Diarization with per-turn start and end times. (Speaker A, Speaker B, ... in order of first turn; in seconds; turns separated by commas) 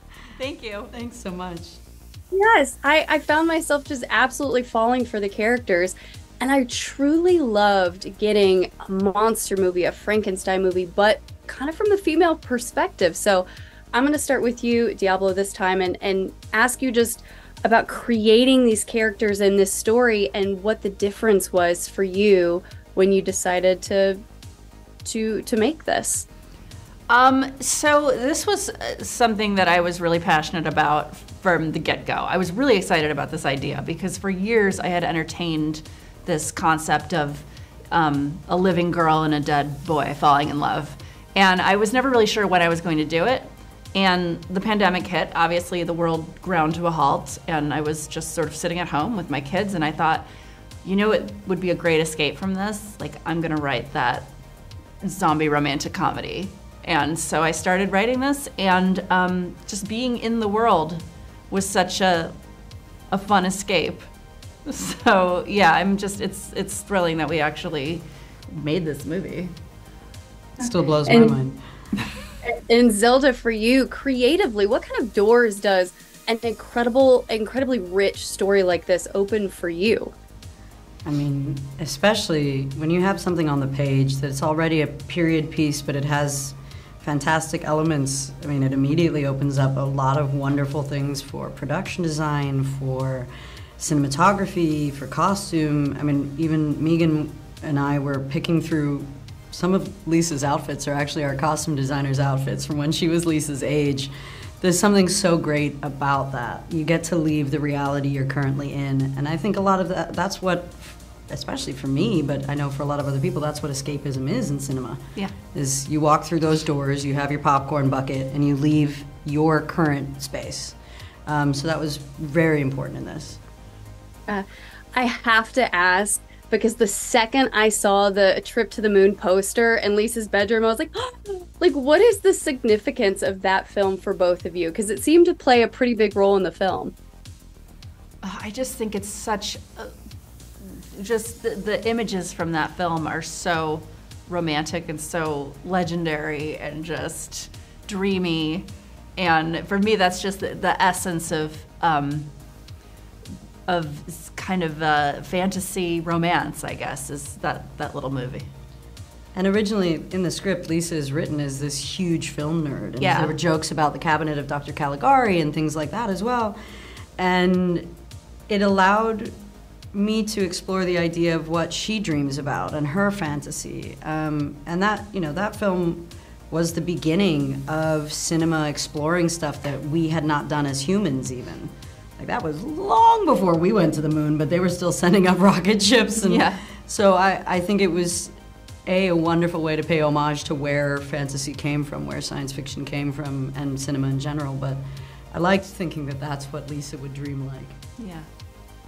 Speaker A: 0.4-0.9, Speaker B: 0.9-1.8, Speaker C: 2.3-24.2, Speaker C: 25.0-26.3, Speaker A: 27.1-50.2, Speaker A: 50.8-54.3, Speaker A: 55.0-62.3, Speaker A: 63.1-64.1, Speaker A: 64.7-69.5, Speaker B: 70.6-71.6, Speaker C: 71.1-71.3, Speaker C: 72.4-80.1, Speaker B: 81.0-115.0, Speaker B: 115.5-123.4, Speaker C: 124.3-136.9, Speaker A: 138.2-139.9, Speaker A: 140.6-152.3, Speaker A: 153.7-158.5, Speaker B: 159.3-166.6, Speaker A: 163.0-163.4, Speaker B: 167.2-167.9, Speaker B: 168.5-169.3, Speaker B: 169.9-188.3, Speaker A: 186.2-186.6, Speaker B: 188.8-197.8, Speaker A: 198.0-198.3